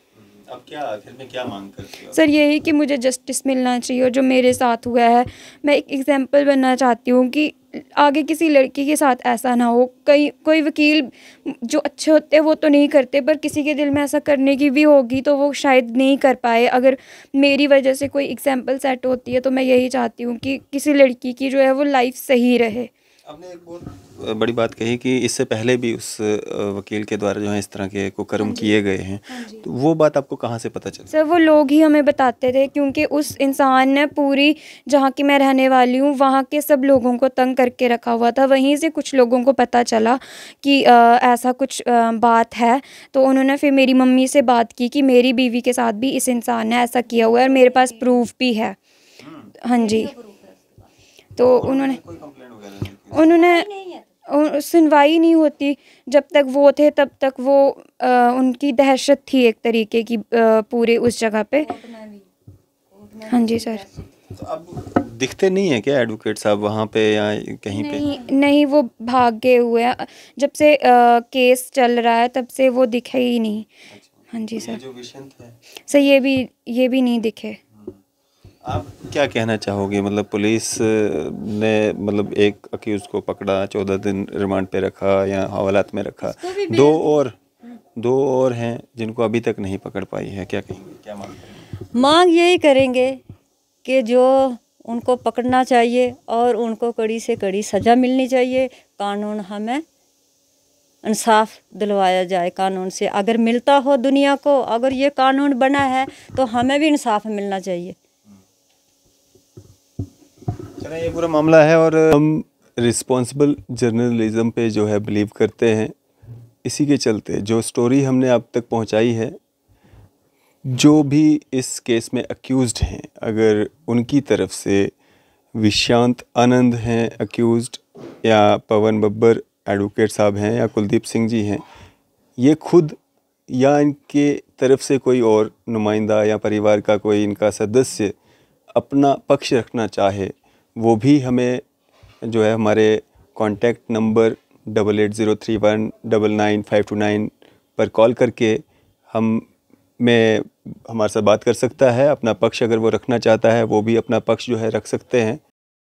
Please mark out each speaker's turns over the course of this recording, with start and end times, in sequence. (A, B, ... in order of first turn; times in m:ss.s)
0:00.2-0:02.2 A
0:02.1-0:22.9 B
0:23.3-0:31.1 A
0:28.4-0:28.7 B
0:29.3-0:29.6 B
0:31.1-0:48.8 B
0:47.2-0:48.2 C
0:49.2-0:49.5 A
0:49.6-0:50.1 B
0:49.7-0:50.9 C
0:51.4-0:52.0 B
0:51.4-0:53.4 A
0:53.1-0:53.7 B
0:53.3-0:54.0 C
0:54.3-1:01.7 B
1:01.6-1:02.3 C
1:02.9-1:04.1 C
1:03.3-1:03.8 B
1:04.3-1:08.0 A
1:07.7-1:08.3 C
1:07.8-1:13.7 B
1:13.9-1:15.6 A
1:14.3-1:14.8 B
1:15.8-1:17.6 B
1:18.6-1:27.3 A
1:26.2-1:27.2 C
1:28.0-1:31.6 A
1:31.9-1:33.2 C
1:33.8-1:39.8 C
1:41.0-1:47.9 C
1:50.8-1:55.9 A
1:56.6-1:59.4 A
2:00.6-2:04.9 A
2:05.6-2:11.6 A
2:12.4-2:13.0 A
2:13.5-2:18.1 A
2:18.7-2:21.6 A
2:22.2-2:29.5 A
2:30.0-2:35.4 A